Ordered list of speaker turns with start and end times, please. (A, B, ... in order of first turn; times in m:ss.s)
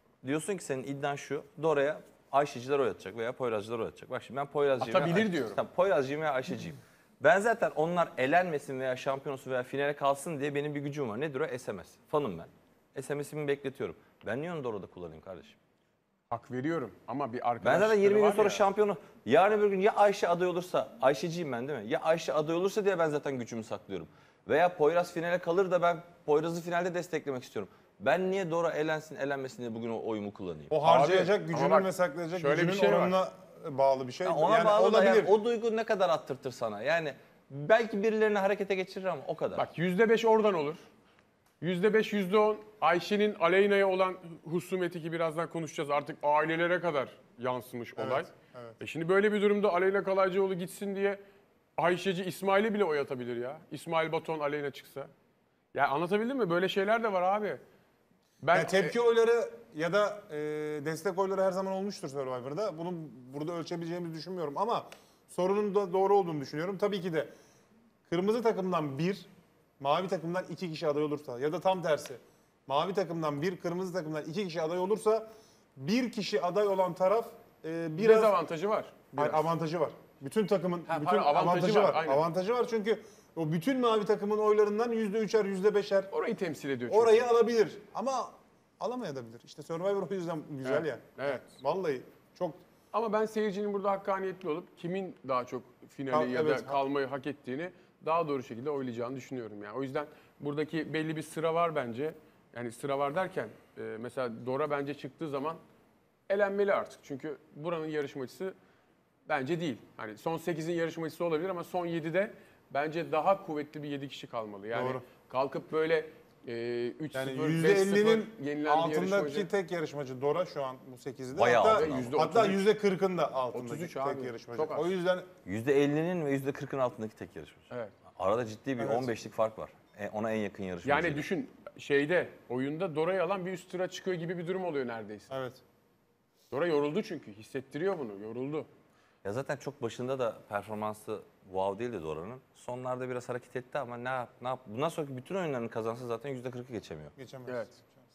0:00.2-0:15.6 A
0:04.8-0:05.6 B
0:16.3-0:18.6 B
0:17.6-0:30.7 A
0:30.7-0:35.3 C
0:30.8-0:33.2 B
0:34.2-0:39.6 A
0:39.6-0:40.8 B
0:41.6-0:48.3 B
0:48.0-0:48.8 C
0:48.8-0:51.2 B
0:51.8-0:55.1 B
0:55.7-0:57.6 B
0:58.4-0:58.9 B
0:58.5-1:07.3 C
1:08.1-1:09.3 C
1:09.8-1:18.3 C
1:18.0-1:19.4 B
1:19.1-1:26.1 C
1:20.9-1:22.3 B
1:26.1-1:27.2 B
1:26.9-1:32.6 C
1:30.6-1:31.5 B
1:32.9-1:45.6 B
1:36.1-1:36.8 C
1:46.3-1:48.6 B
1:49.3-1:59.5 B
1:54.7-1:55.0 C
1:57.1-2:05.3 C
2:01.3-2:02.2 A
2:01.6-2:02.6 B
2:03.5-2:04.9 B
2:05.4-2:11.2 A
2:08.8-2:09.2 C
2:10.8-2:15.3 B
2:15.3-2:15.6 C
2:16.5-2:18.7 B
2:19.2-2:27.1 A
2:27.2-2:28.0 C
2:27.5-2:27.7 B